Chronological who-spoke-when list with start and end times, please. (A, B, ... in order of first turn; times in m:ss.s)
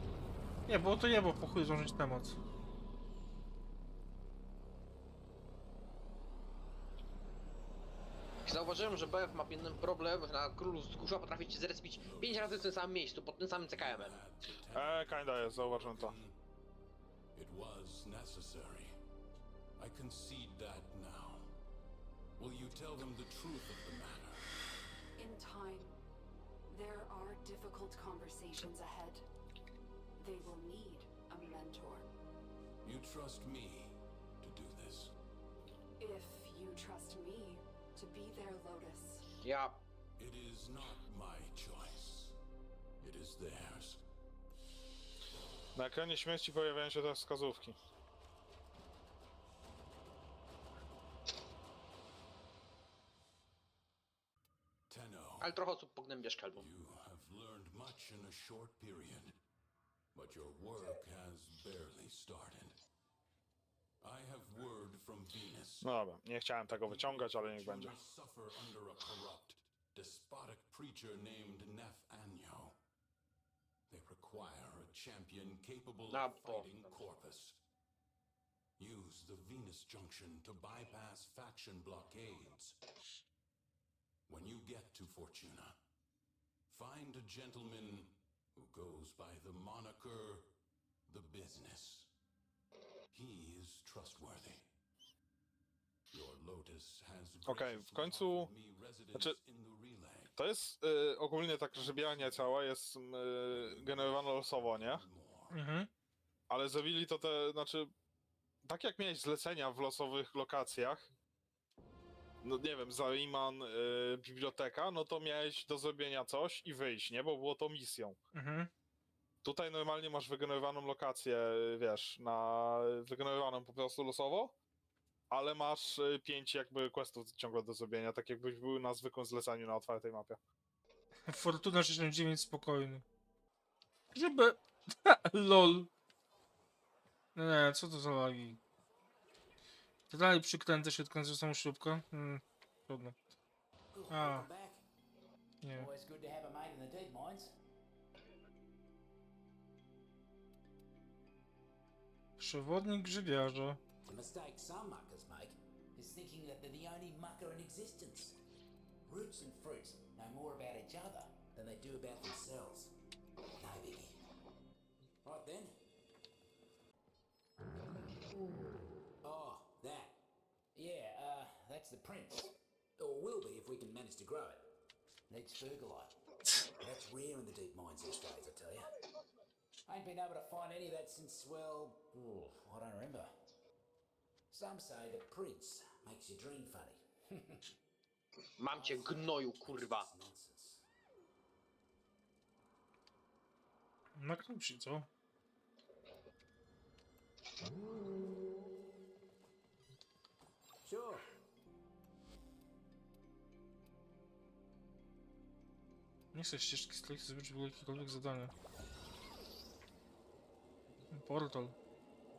0:00.7-0:02.4 A
0:08.5-0:14.2 B
0:12.0-0:12.8 C
0:13.7-0:16.4 C
0:14.7-0:16.2 D
0:17.3-0:19.0 C
0:19.8-0:21.5 C
0:22.4-0:24.5 C
0:25.2-0:26.0 E
0:26.7-0:29.2 E
0:30.2-0:32.1 E
0:32.8-0:35.1 C
0:36.0-0:39.3 E
0:39.4-0:39.8 B
0:40.2-0:42.4 C
0:43.0-0:44.0 C
0:45.8-0:47.8 D
0:54.9-0:55.6 C
0:55.4-0:56.6 B
0:56.5-0:59.4 C
1:00.1-1:02.8 C
1:04.0-1:05.9 C
1:05.8-1:08.0 D
1:06.8-1:12.8 C
1:13.9-1:17.6 C
1:16.1-1:17.0 B
1:18.8-1:22.8 C
1:24.3-1:25.8 C
1:26.7-1:30.5 C
1:31.1-1:32.1 C
1:33.1-1:34.7 C
1:36.1-1:40.3 C
1:37.5-1:38.5 D
1:40.4-1:45.0 D
1:41.7-1:42.5 C
1:43.5-1:45.6 C
1:45.5-1:45.9 A
1:46.5-1:47.9 D
1:48.6-1:51.1 D
1:52.4-1:58.2 D
1:58.3-1:58.7 A
1:59.4-2:04.5 D
2:05.3-2:10.4 D
2:11.3-2:13.0 A
2:14.1-2:15.9 A
2:17.3-2:18.6 A
2:20.1-2:23.2 A
2:23.9-2:24.8 F
2:24.1-2:24.5 A
2:25.6-2:25.9 A
2:25.7-2:27.5 F
2:32.4-2:33.8 A
2:34.0-2:38.4 F
2:39.0-2:42.9 F
2:43.6-2:44.2 F
2:45.2-2:45.8 F
2:49.2-2:50.2 F
2:50.8-2:54.6 F
2:55.3-2:56.2 F
2:56.8-2:58.9 F
2:59.8-3:03.3 F
3:04.5-3:07.8 F
3:08.6-3:10.1 B
3:08.7-3:10.9 F
3:14.2-3:15.1 A
3:20.8-3:21.2 F
3:26.3-3:28.5 A
3:31.1-3:31.8 A